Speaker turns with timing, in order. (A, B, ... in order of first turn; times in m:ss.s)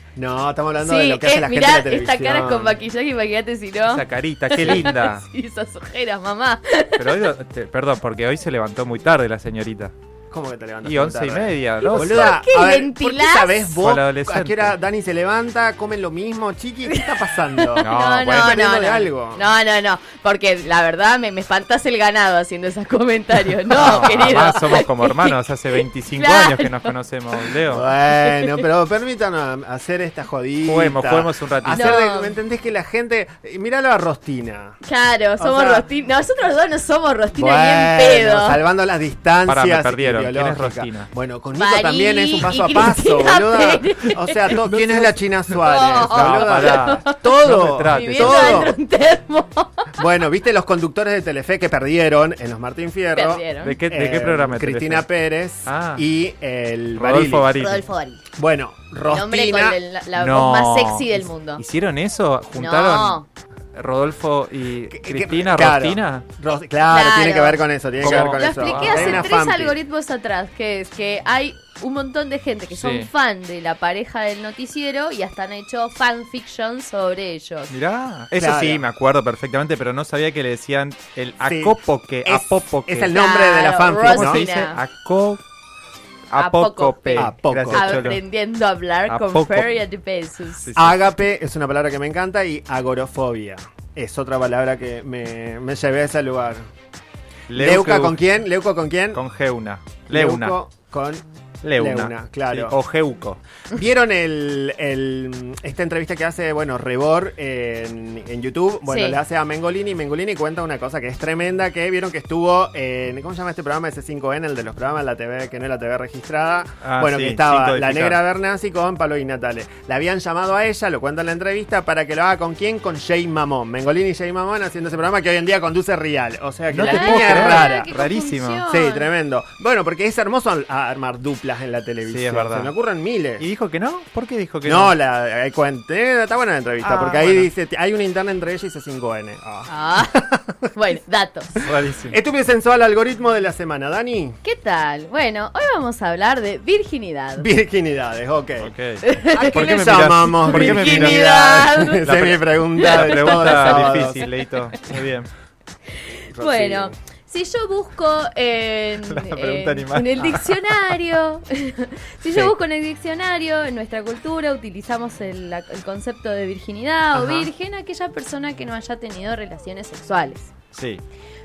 0:00.2-0:02.8 A
0:00.8-0:07.2 B
0:03.9-0:05.2 C
0:07.0-0:09.9 C
0:10.3-0:19.4 A
0:10.8-0:12.4 C
0:11.8-0:13.8 B
0:13.8-0:14.8 C
0:16.9-0:25.4 B
0:17.8-0:18.6 C
0:23.7-0:27.8 C
0:23.8-0:24.1 A
0:26.2-0:26.9 B
0:27.7-0:34.8 A
0:28.1-0:28.6 B
0:30.6-0:32.0 C
0:31.7-0:32.4 B
0:34.8-0:38.6 B
0:35.4-0:35.8 A
0:37.3-0:48.7 A
0:39.4-0:41.1 C
0:41.5-0:44.5 B
0:44.5-0:45.2 C
0:45.6-0:47.2 B
0:46.0-0:48.7 C
0:47.9-0:49.9 B
0:50.0-0:57.5 A
0:53.1-0:53.8 B
0:53.6-0:55.1 C
0:55.6-0:56.0 C
0:56.9-0:57.8 C
0:57.5-0:58.2 B
0:58.4-0:59.8 A
0:59.0-1:01.6 B
1:00.2-1:03.2 C
1:02.6-1:03.2 B
1:03.7-1:06.2 C
1:04.9-1:09.7 A
1:06.8-1:17.7 B
1:08.0-1:09.2 C
1:12.7-1:13.1 C
1:17.7-1:23.2 C
1:18.4-1:18.8 A
1:21.4-1:24.4 A
1:23.1-1:24.8 B
1:24.0-1:25.4 C
1:26.3-1:28.2 C
1:26.4-1:30.7 B
1:27.2-1:28.1 A
1:29.1-1:29.7 C
1:30.6-1:31.0 C
1:30.8-1:36.6 A
1:37.5-1:38.2 C
1:37.6-1:39.2 A
1:39.1-1:40.6 C
1:40.1-1:41.2 A
1:41.6-1:43.4 C
1:41.7-1:42.8 A
1:43.7-2:07.9 A
1:48.8-1:49.2 B
1:56.8-1:58.2 C
2:06.7-2:08.6 C
2:06.8-2:09.1 B
2:08.7-2:13.4 A
2:12.0-2:12.7 C
2:13.4-2:14.9 C
2:14.6-2:20.5 A
2:16.8-2:17.3 B
2:17.0-2:17.5 C
2:19.7-2:21.6 B
2:21.6-2:22.2 C
2:22.1-2:24.4 A
2:24.4-2:27.5 B
2:27.4-2:28.7 A
2:28.6-2:35.3 C
2:29.0-2:32.1 B
2:29.3-2:34.3 A
2:32.8-2:34.1 B
2:36.3-2:36.9 A
2:36.4-2:50.5 B
2:39.0-2:40.9 C
2:47.1-2:47.5 C
2:50.7-2:51.0 C